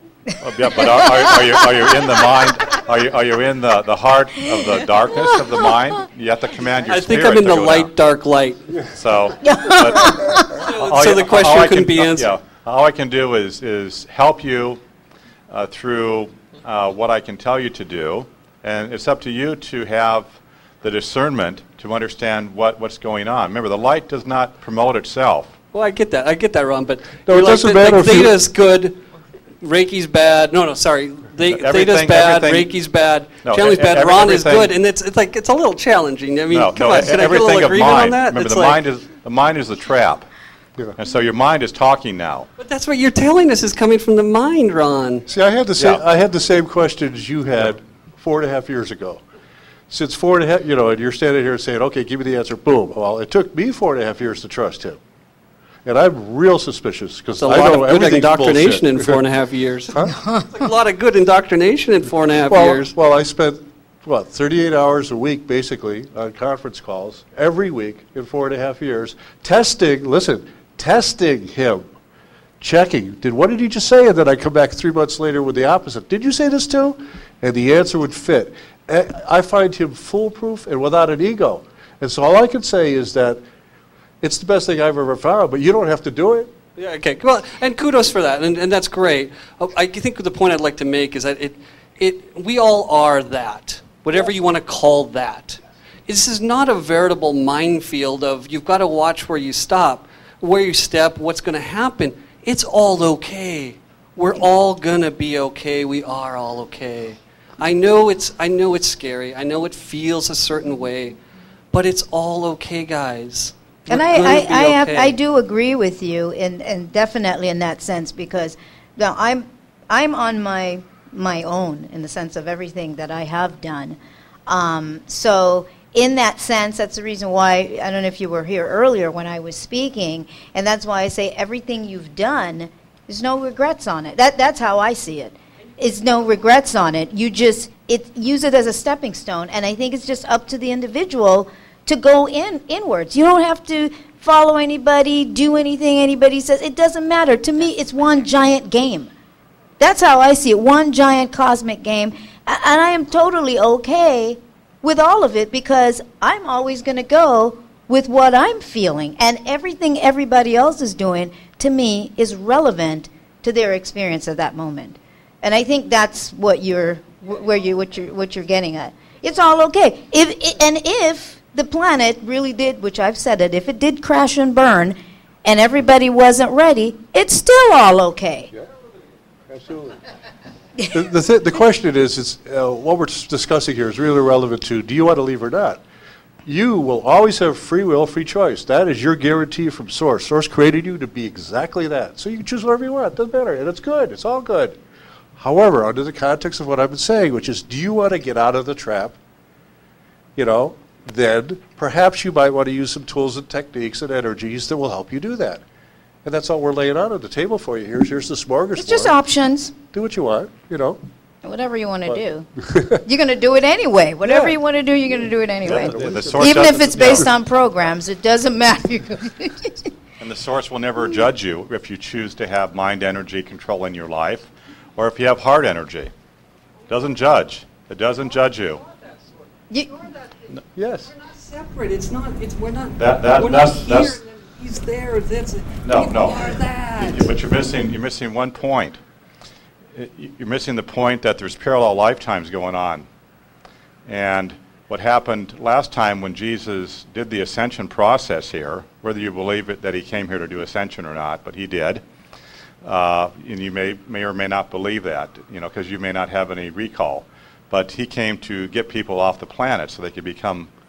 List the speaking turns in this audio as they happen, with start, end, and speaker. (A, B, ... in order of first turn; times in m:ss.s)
0:00.4-0:07.9 A
0:06.8-0:08.7 B
0:08.9-0:14.8 A
0:10.6-0:12.3 B
0:15.5-0:25.5 A
0:25.7-0:29.0 B
0:27.2-0:28.4 C
0:29.6-0:38.8 B
0:31.5-0:32.7 A
0:33.4-0:34.7 A
0:36.5-0:40.2 A
0:41.0-0:42.5 A
0:42.6-0:45.2 B
0:45.3-0:49.2 C
0:45.8-0:46.0 A
0:49.9-0:55.0 C
0:55.8-0:59.2 C
0:57.4-1:02.9 B
1:02.5-1:11.9 C
1:12.6-1:23.4 C
1:24.2-1:26.6 C
1:26.8-1:51.2 B
1:51.7-1:55.2 B
1:53.9-2:29.1 D
2:29.8-2:58.5 D
2:59.5-3:00.0 C
3:00.9-3:05.8 C
3:06.4-3:14.8 C
3:15.4-3:19.2 C
3:20.4-3:25.6 C
3:26.2-3:29.1 C
3:28.8-3:29.7 D
3:29.9-3:31.0 C
3:31.4-3:39.8 D
3:32.7-3:33.0 C
3:34.2-3:34.6 C
3:35.6-3:37.2 C
3:35.7-3:37.3 A
3:40.2-3:46.1 A
3:46.9-3:48.8 A
3:49.7-3:50.0 D
3:50.8-3:51.1 C
3:51.1-3:57.4 B
3:53.0-3:54.2 A
3:55.8-3:59.0 A
3:59.9-4:03.1 A
4:04.0-4:12.0 A
4:12.8-4:20.7 A